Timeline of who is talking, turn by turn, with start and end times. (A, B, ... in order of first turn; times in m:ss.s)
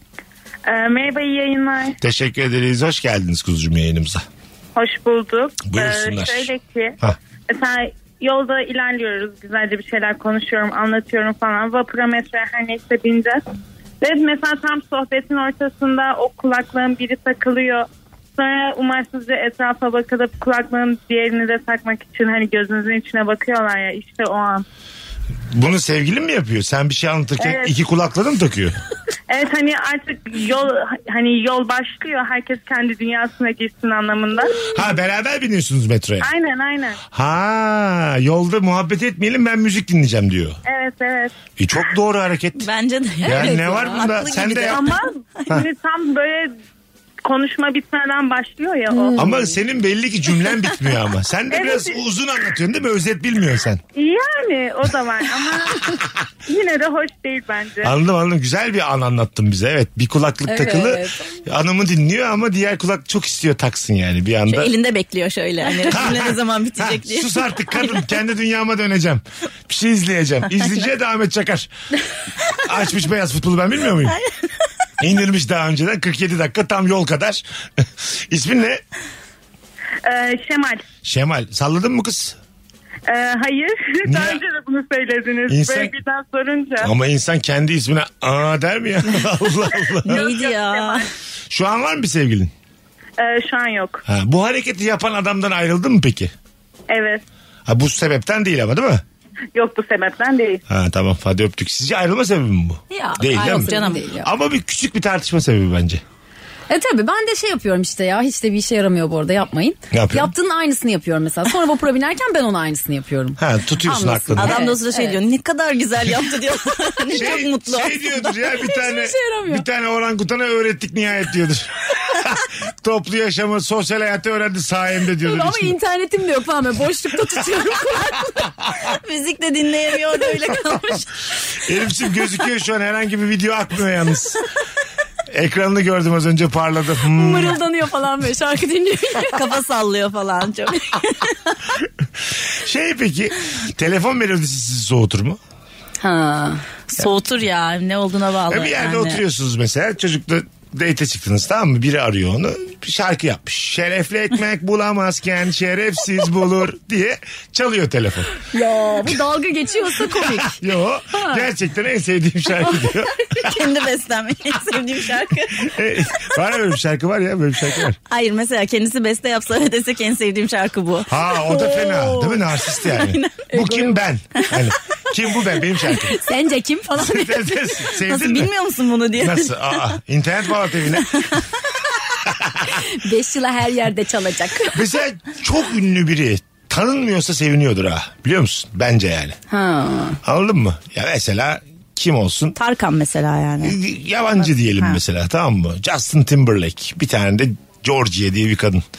0:00.6-0:02.0 A
0:02.0-0:04.2 B
0:04.8-0:07.0 A
0:05.7-0:06.5 B
0:07.5-0:13.4 A
0:14.0-0:24.6 A
0:25.5-0:28.8 B
0:27.4-0:27.7 A
0:29.3-0:34.7 A
0:34.7-0:36.3 B
0:36.2-0:37.0 A
0:37.1-0:40.6 B
0:40.6-0:41.3 A
0:41.6-0:42.7 B
0:42.6-0:45.4 C
0:43.2-0:45.0 B
0:43.3-0:43.9 D
0:44.7-0:46.5 A
0:47.2-0:49.2 A
0:48.9-0:49.4 D
0:49.2-0:53.8 B
0:51.5-0:52.0 A
0:53.9-0:57.9 A
0:57.8-1:04.7 B
1:00.4-1:01.3 D
1:04.5-1:07.8 C
1:05.9-1:11.7 B
1:12.6-1:14.2 B
1:15.0-1:18.8 B
1:20.0-1:20.8 A
1:21.0-1:22.4 B
1:23.1-1:26.9 A
1:24.0-1:24.4 B
1:25.5-1:25.9 B
1:26.8-1:30.3 B
1:30.0-1:31.0 C
1:30.1-1:31.0 A
1:31.5-1:32.5 B
1:33.2-1:34.0 A
1:34.1-1:36.3 B
1:36.9-1:37.2 A
1:37.6-1:39.0 B
1:39.5-1:40.6 A
1:40.7-1:46.0 B
1:42.9-1:44.3 D
1:43.4-1:44.0 C
1:46.7-1:55.2 D
1:49.9-1:50.3 B
1:53.4-1:54.6 B
1:54.4-1:58.4 C
1:57.1-2:05.8 B
1:58.5-1:59.6 D
2:05.2-2:08.5 D
2:08.7-2:11.0 C
2:11.6-2:14.4 B
2:15.3-2:17.6 B
2:17.1-2:19.4 D
2:19.3-2:21.5 C
2:22.5-2:25.4 B
2:26.0-2:26.6 D
2:26.9-2:29.2 C
2:28.5-2:38.4 B
2:38.5-2:40.6 D
2:40.0-2:43.6 B
2:41.1-2:41.4 D
2:42.7-2:43.4 D
2:43.4-2:45.7 C
2:45.5-2:48.0 B
2:48.1-2:53.8 C
2:51.0-2:56.2 B
2:53.6-2:53.8 D
2:55.9-2:57.7 D
2:56.9-2:58.5 B
2:58.0-2:59.8 C
2:59.2-3:01.3 B
3:02.3-3:02.8 B
3:02.6-3:04.8 D
3:04.7-3:09.4 B
3:09.5-3:10.2 D
3:10.2-3:12.6 B
3:12.6-3:13.8 C
3:13.6-3:18.8 B